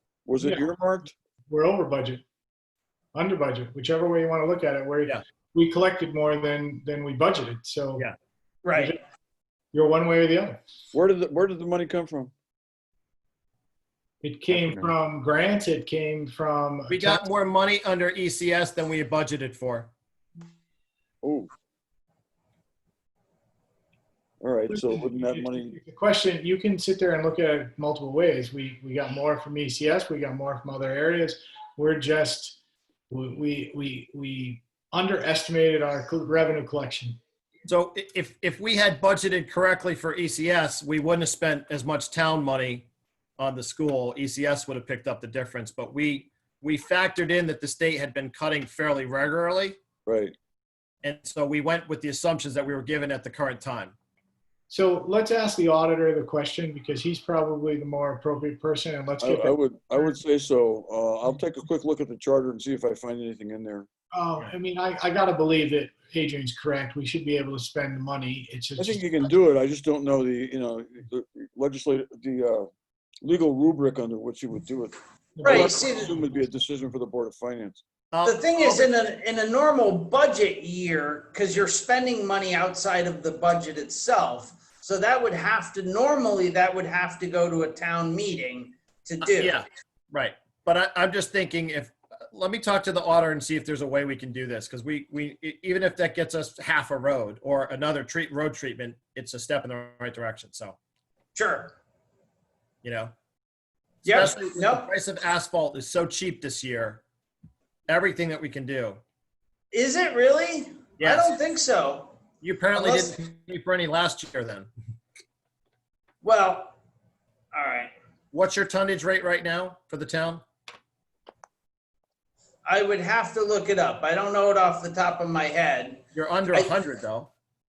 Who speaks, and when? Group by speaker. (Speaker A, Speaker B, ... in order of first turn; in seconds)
Speaker A: 0.2-1.1, 10.9-12.3, 14.5-14.9, 21.2-21.5, 24.4-25.7, 50.0-50.3, 59.2-63.9, 68.8-72.7, 73.2-77.8
Speaker B: 0.4-0.7, 1.5-2.2, 3.1-8.1, 9.7-10.6, 14.2-17.2, 24.7-32.6, 33.1-37.2, 54.7-60.1, 64.1-69.0, 75.3-76.2
Speaker C: 8.6-8.9, 75.4-76.1, 78.2-89.6, 101.3-101.7, 104.0-104.9, 109.7-112.2, 112.7-113.1, 116.2-116.8, 117.5-117.9, 122.7-126.8
Speaker D: 16.9-19.9, 37.7-49.8, 51.0-53.9, 78.1-78.9, 89.2-100.8, 102.8-103.1, 104.1-107.0, 107.9-109.0, 111.0-111.3, 112.4-114.7, 118.3-120.4, 126.1-127.3